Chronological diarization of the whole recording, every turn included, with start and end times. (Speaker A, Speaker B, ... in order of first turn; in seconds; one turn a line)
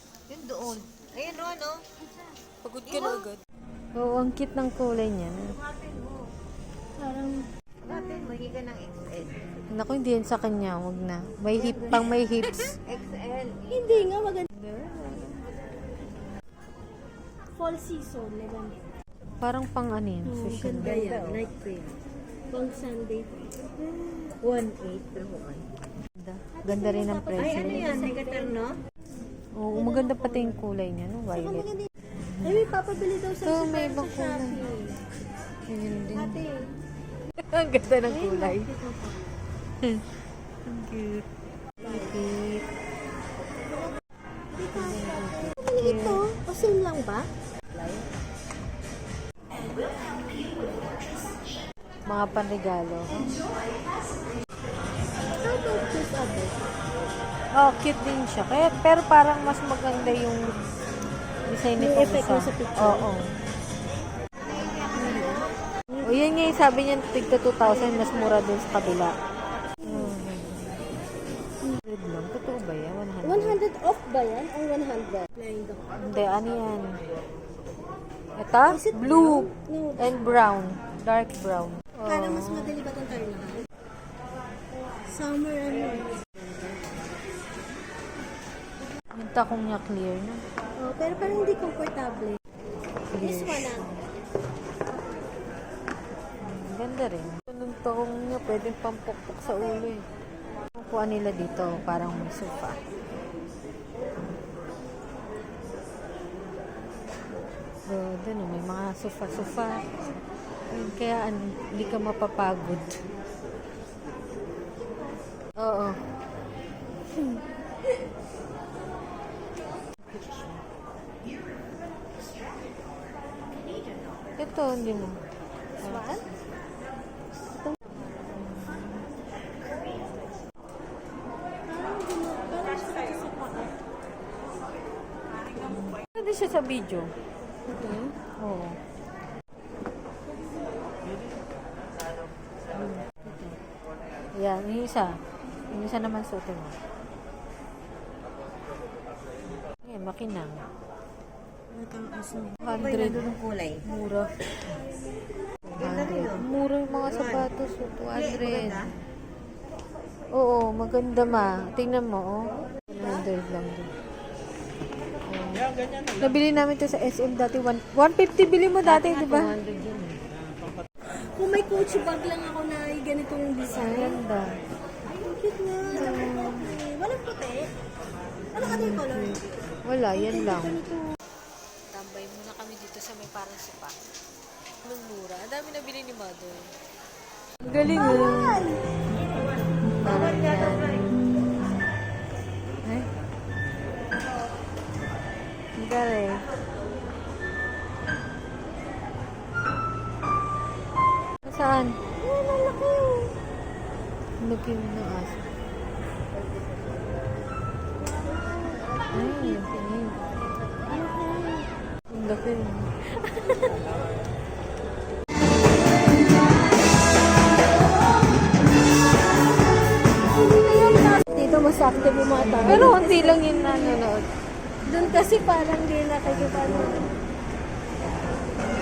Speaker A: 0.3-1.8
Speaker B: 2.6-3.4
Speaker A: 2.9-3.2
Speaker B: 3.9-5.6
Speaker A: 5.7-6.2
Speaker C: 7.0-8.2
Speaker A: 7.8-9.4
Speaker B: 9.7-12.7
Speaker A: 11.6-12.2
Speaker A: 12.8-14.1
Speaker C: 13.7-14.5
Speaker B: 14.5-15.4
Speaker C: 17.5-18.8
Speaker B: 19.4-21.0
Speaker C: 20.2-21.7
Speaker A: 20.8-21.9
Speaker C: 22.5-23.4
Speaker A: 23.8-25.6
Speaker B: 26.2-28.1
Speaker C: 26.6-28.6
Speaker A: 27.4-28.8
Speaker B: 29.6-31.6
Speaker C: 29.7-30.6
Speaker C: 31.3-31.9
Speaker B: 32.2-32.6
Speaker C: 32.4-35.0
Speaker B: 33.4-34.6
Speaker B: 35.7-36.4
Speaker C: 36.1-36.7
Speaker B: 37.5-38.6
Speaker C: 38.0-39.3
Speaker B: 40.7-41.2
Speaker B: 41.8-42.6
Speaker C: 44.5-48.0
Speaker B: 44.7-46.2
Speaker B: 52.1-53.2
Speaker C: 55.4-56.7
Speaker B: 57.6-60.5
Speaker B: 61.5-63.2
Speaker C: 61.8-63.1
Speaker B: 64.9-65.3
Speaker C: 65.0-66.1
Speaker B: 66.0-69.1
Speaker C: 67.8-68.2
Speaker C: 69.8-70.1
Speaker B: 69.9-70.8
Speaker B: 71.8-73.6
Speaker C: 73.2-76.2
Speaker B: 76.0-77.0
Speaker B: 78.4-82.8
Speaker C: 78.7-80.3
Speaker C: 82.0-83.6
Speaker C: 85.0-86.9
Speaker B: 89.1-90.4
Speaker C: 90.8-92.4
Speaker B: 93.1-94.0
Speaker C: 93.1-93.9
Speaker B: 96.4-100.0
Speaker B: 100.7-102.8
Speaker B: 107.9-109.8
Speaker B: 110.7-113.0
Speaker B: 115.6-116.0
Speaker B: 120.0-120.6
Speaker B: 124.4-125.2
Speaker C: 125.8-126.2
Speaker B: 125.8-126.2
Speaker B: 128.4-129.0
Speaker C: 131.7-133.8
Speaker B: 135.6-137.1
Speaker C: 137.7-138.2
Speaker B: 138.4-138.8
Speaker B: 142.7-143.6
Speaker B: 144.4-145.2
Speaker B: 145.7-146.7
Speaker B: 149.8-150.6
Speaker A: 151.7-153.8
Speaker B: 152.6-153.3
Speaker B: 153.8-154.3
Speaker A: 155.8-156.4
Speaker B: 155.8-159.0
Speaker A: 158.3-158.8
Speaker B: 160.3-163.9
Speaker B: 165.2-165.7
Speaker B: 166.2-169.5
Speaker A: 168.8-170.1
Speaker C: 171.3-174.2
Speaker B: 173.7-174.5
Speaker C: 175.1-177.7
Speaker B: 175.9-176.7
Speaker C: 178.5-179.5
Speaker B: 178.6-180.8
Speaker C: 180.1-181.0
Speaker B: 181.9-184.0
Speaker B: 184.8-186.7
Speaker B: 187.6-188.6
Speaker C: 187.8-188.8
Speaker B: 190.0-191.7
Speaker B: 195.8-196.4
Speaker B: 201.4-202.0
Speaker C: 202.2-203.3
Speaker B: 204.4-205.4
Speaker C: 209.0-209.6
Speaker B: 209.1-210.2
Speaker C: 210.9-211.7
Speaker B: 212.1-212.9
Speaker C: 213.3-213.7
Speaker C: 220.3-224.0
Speaker B: 222.6-224.2
Speaker C: 224.8-227.1